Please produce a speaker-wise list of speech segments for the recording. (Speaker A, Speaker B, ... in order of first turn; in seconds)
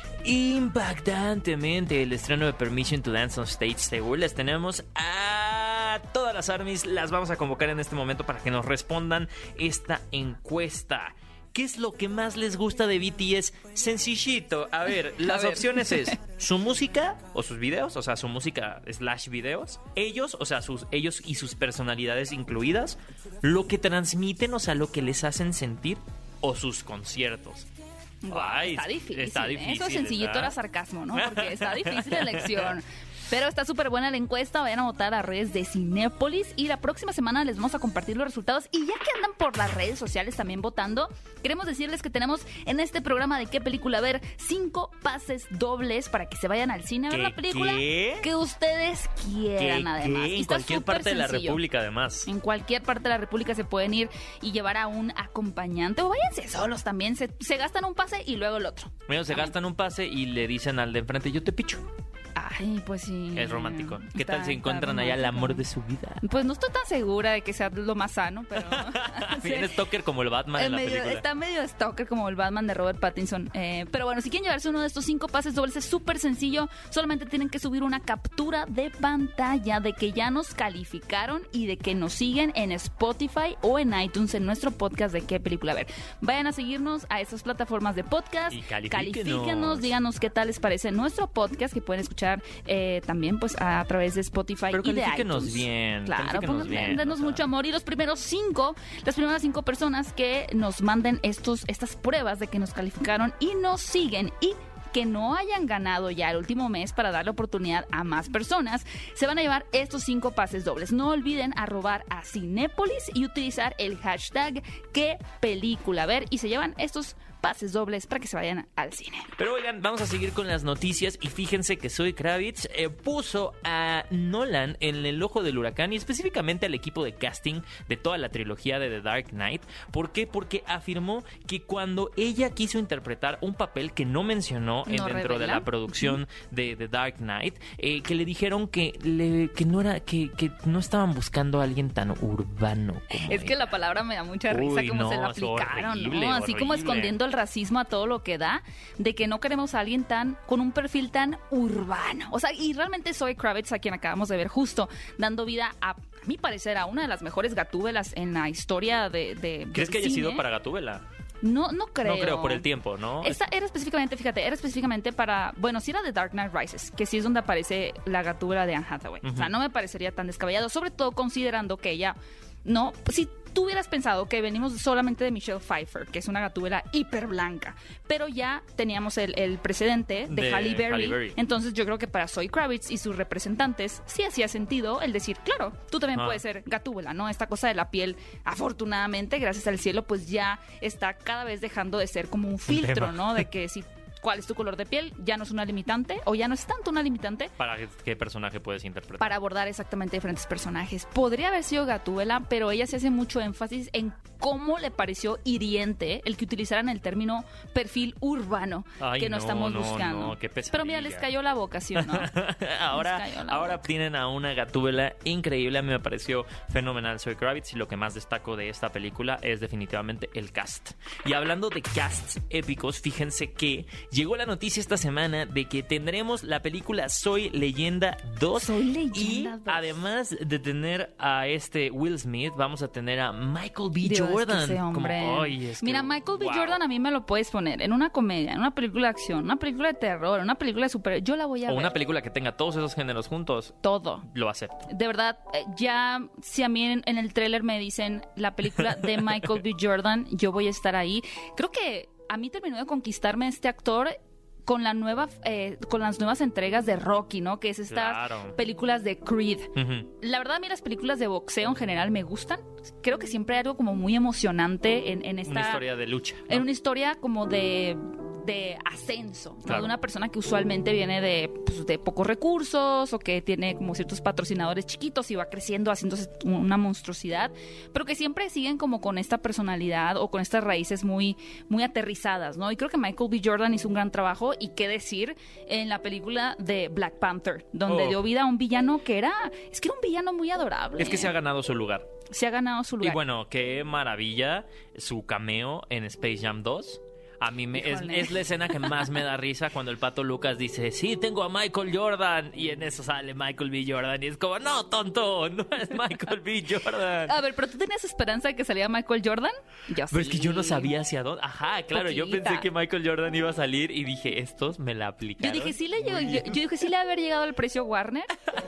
Speaker A: 0.2-27.6, 28.3-30.5, 31.1-32.7, 47.1-48.3, 49.6-52.3, 59.1-61.8, 63.3-66.2, 68.6-71.2, 88.5-89.9, 94.7-97.4, 119.4-143.6, 144.5-147.1, 159.7-161.0, 162.0-163.4, 169.2-169.5, 180.3-181.4, 186.1-186.4, 192.7-193.4, 197.6-199.3, 209.0-211.3, 211.9-236.8, 241.7-244.9, 248.9-249.4, 257.9-258.6, 259.8-260.1, 265.5-266.6, 269.7-269.9, 287.9-288.2, 291.0-292.1, 293.0-307.4, 310.1-316.6
Speaker B: 15.2-16.1, 28.2-51.6, 52.2-59.5, 62.4-65.6, 66.2-69.7, 70.5-119.3, 134.9-136.2, 143.1-160.4, 161.4-162.7, 163.2-197.5, 199.2-212.3, 212.9-213.8, 228.6-229.9, 234.0-241.9, 243.8-244.2, 244.9-265.8, 266.5-291.3, 292.3-293.2, 297.7-299.0, 307.3-310.9, 311.9-312.7, 315.4-318.3